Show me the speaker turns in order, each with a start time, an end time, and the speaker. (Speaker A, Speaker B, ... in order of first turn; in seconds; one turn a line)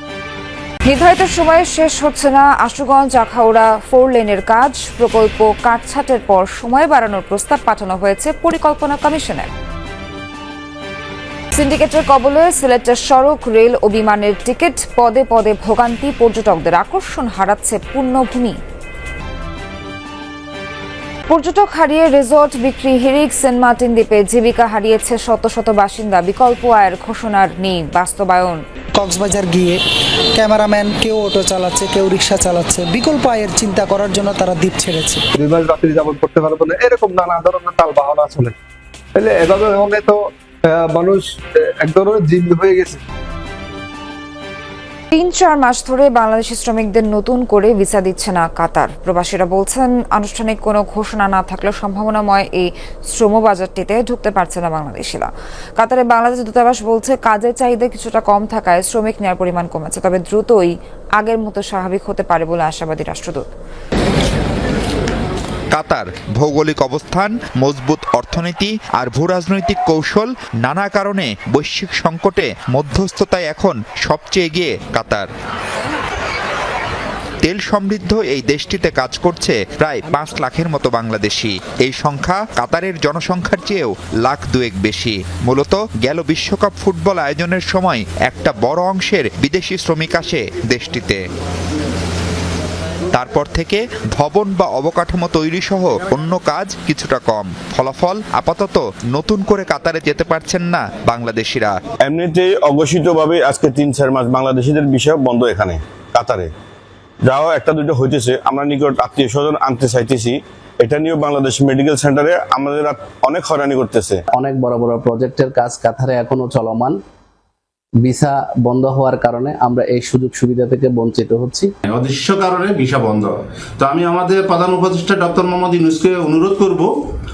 Speaker A: 0.9-9.5
Speaker A: 11.6-18.6
Speaker A: 21.3-28.6
Speaker B: 29.0-29.8
Speaker B: 30.4-35.2
Speaker C: 35.5-38.5
Speaker A: 45.1-63.4
Speaker D: 65.7-75.3
Speaker D: 77.4-91.2
Speaker D: 93.1-101.8
Speaker E: 102.0-106.5
Speaker E: 107.3-114.2
Speaker F: 114.3-117.0
Speaker F: 118.0-121.7
Speaker G: 121.8-126.9